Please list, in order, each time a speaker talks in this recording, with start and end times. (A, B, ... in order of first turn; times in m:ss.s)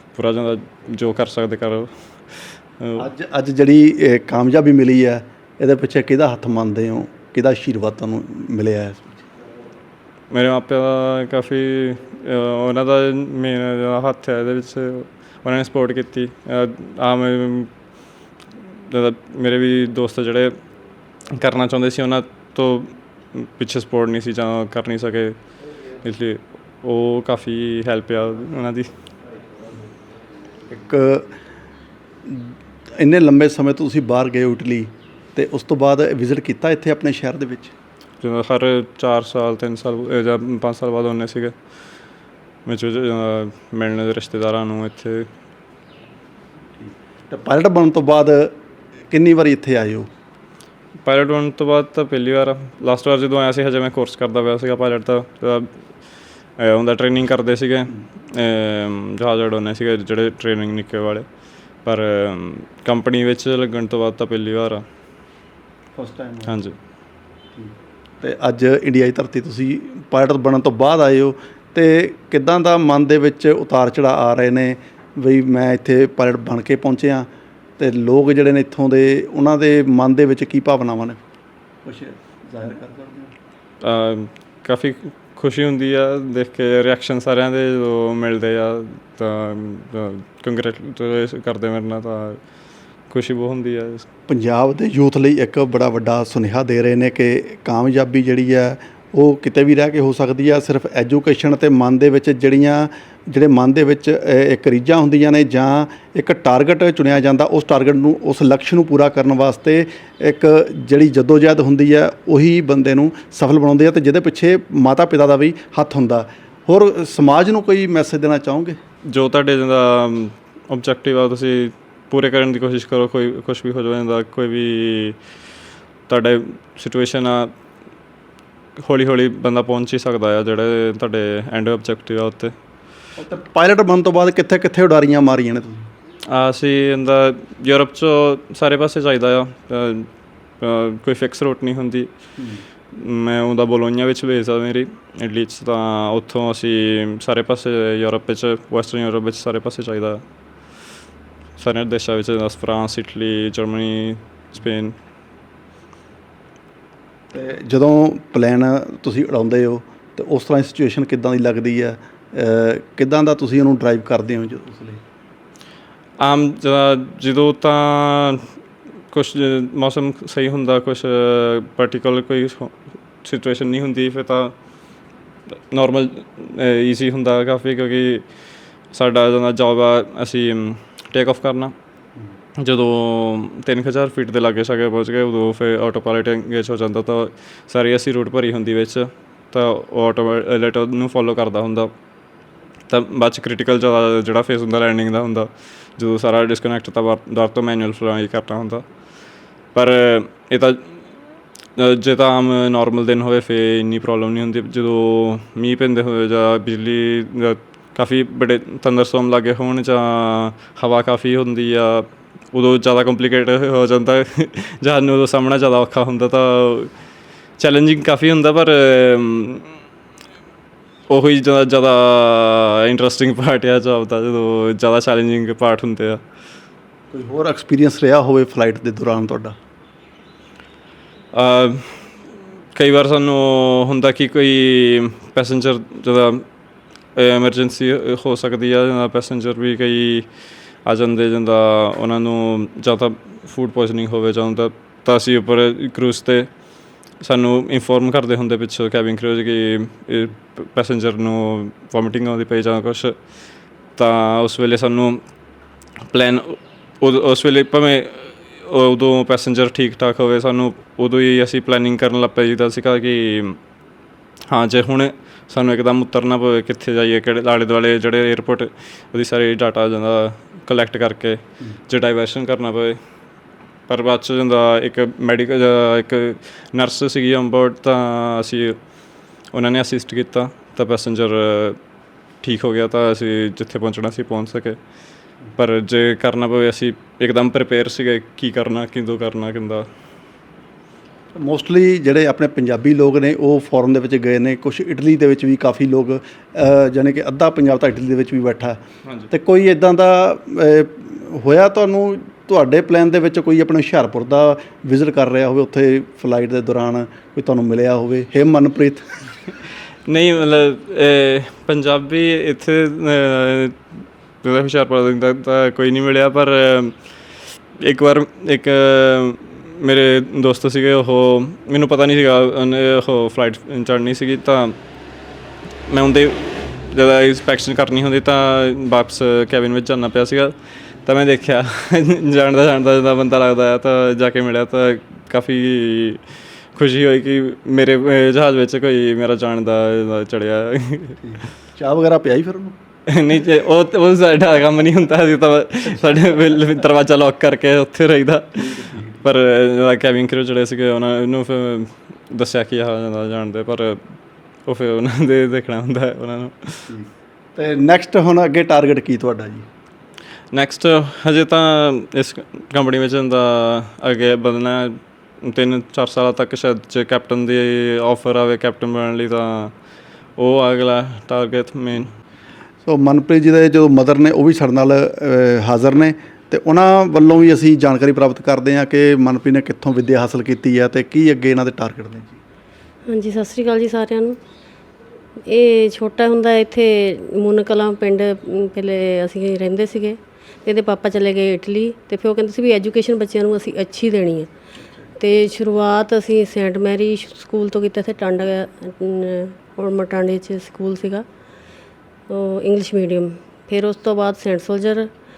0:00.1-0:03.0 A
0:03.0-0:09.2 B
0:10.3-0:17.7 A
0:18.9-0:20.5 A
0:21.3-0:25.4 A
0:26.0-0:28.9 A
0:30.7-0:31.3 B
0:32.3-0:37.7 B
0:38.2-0:41.5 A
0:42.6-0:45.2 A
0:46.8-0:48.5 B
0:49.1-0:50.1 B
0:51.0-0:55.7 A
0:56.6-1:01.2 A
1:01.8-1:04.8 A
1:06.0-1:06.6 B
1:06.5-1:06.7 A
1:07.6-1:17.3 B
1:17.8-1:21.2 B
1:21.8-1:23.3 B
1:23.8-1:32.4 A
1:33.1-1:34.0 A
1:34.3-1:58.8 B
1:59.1-2:05.2 A
2:06.1-2:07.5 A
2:08.8-2:12.5 A
2:13.2-2:15.8 B
2:16.3-2:20.1 A
2:20.6-2:22.1 A
2:22.9-2:30.2 A
2:31.6-2:35.0 A
2:37.3-2:45.0 B
2:46.2-2:48.4 A
2:49.1-2:54.5 A
2:55.7-2:58.2 A
2:58.9-3:01.7 A
3:02.6-3:11.9 A
3:12.9-3:18.8 A
3:19.7-3:20.8 A
3:21.8-3:36.9 A
3:37.6-3:39.7 A
3:41.1-3:46.2 A
3:47.1-3:49.5 B
3:51.3-3:52.0 A
3:52.7-3:56.4 A
3:57.1-4:00.3 A
4:00.8-4:06.5 A
4:07.2-4:13.2 A
4:14.0-4:15.2 A
4:16.1-4:23.6 A
4:24.5-4:33.0 A
4:33.9-4:38.8 A
4:39.5-4:41.8 A
4:42.4-4:44.8 A
4:45.5-4:49.9 A
4:51.3-4:58.8 B
4:59.3-5:09.0 B
5:10.1-5:13.8 A
5:14.4-5:16.9 A
5:17.8-5:24.8 A
5:25.9-5:30.5 A
5:31.0-5:36.2 A
5:36.7-5:41.2 A
5:41.2-5:42.7 B
5:43.1-5:48.7 A
5:48.6-5:49.2 B
5:49.2-5:54.0 A
5:54.6-5:56.9 A
5:56.9-5:59.6 B
6:00.5-6:09.7 A
6:10.4-6:12.1 A
6:12.8-6:22.4 B
6:23.1-6:24.4 C
6:25.5-6:34.5 C
6:35.2-6:41.2 C
6:42.3-6:45.1 C